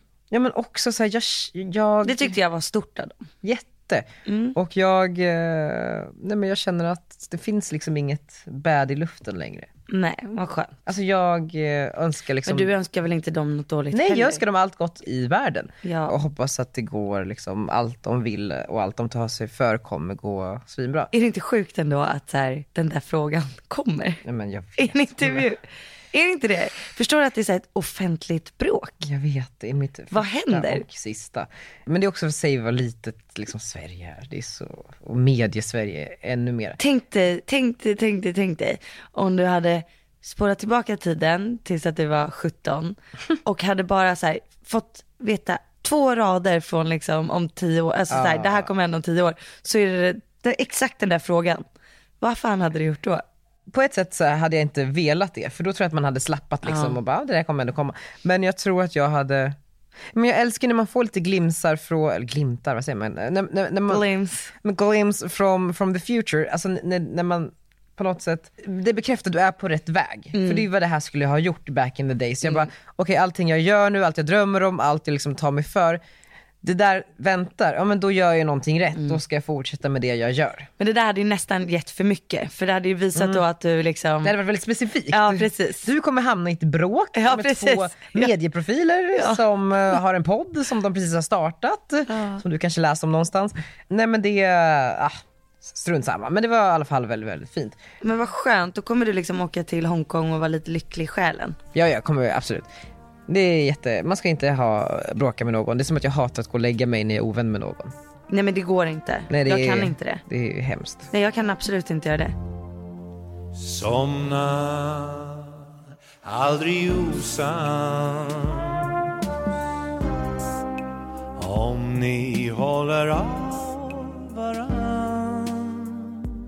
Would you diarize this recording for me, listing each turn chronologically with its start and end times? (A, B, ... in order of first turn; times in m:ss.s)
0:00.3-0:02.3 A
0:02.0-0:03.3 B
0:03.4-0:09.7 A
0:04.2-0:04.6 B
0:09.9-0:10.7 B
0:10.8-0:12.7 A
0:12.4-0:14.4 B
0:13.9-0:21.1 A
0:15.8-0:16.1 B
0:21.1-0:24.2 B
0:24.2-0:25.5 A
0:24.8-0:29.1 B
0:29.0-0:36.8 A
0:30.1-0:30.8 B
0:36.8-0:51.6 B
0:48.1-0:48.7 A
0:52.2-0:53.2 B
0:53.7-0:59.6 A
0:56.6-0:57.0 B
1:00.1-1:16.0 A
1:03.9-1:04.5 B
1:10.3-1:10.6 B
1:16.6-1:20.7 A
1:20.8-1:24.3 B
1:23.1-1:23.4 A
1:24.2-1:37.8 A
1:25.1-1:25.9 B
1:27.2-1:28.3 B
1:29.1-1:29.4 B
1:32.1-1:32.4 B
1:38.0-1:41.6 B
1:41.7-1:42.7 A
1:43.3-1:47.9 A
1:48.3-1:50.2 B
1:49.3-1:51.1 A
1:51.1-1:52.3 B
1:53.5-1:55.6 C
1:56.2-1:58.9 C
2:01.4-2:06.2 C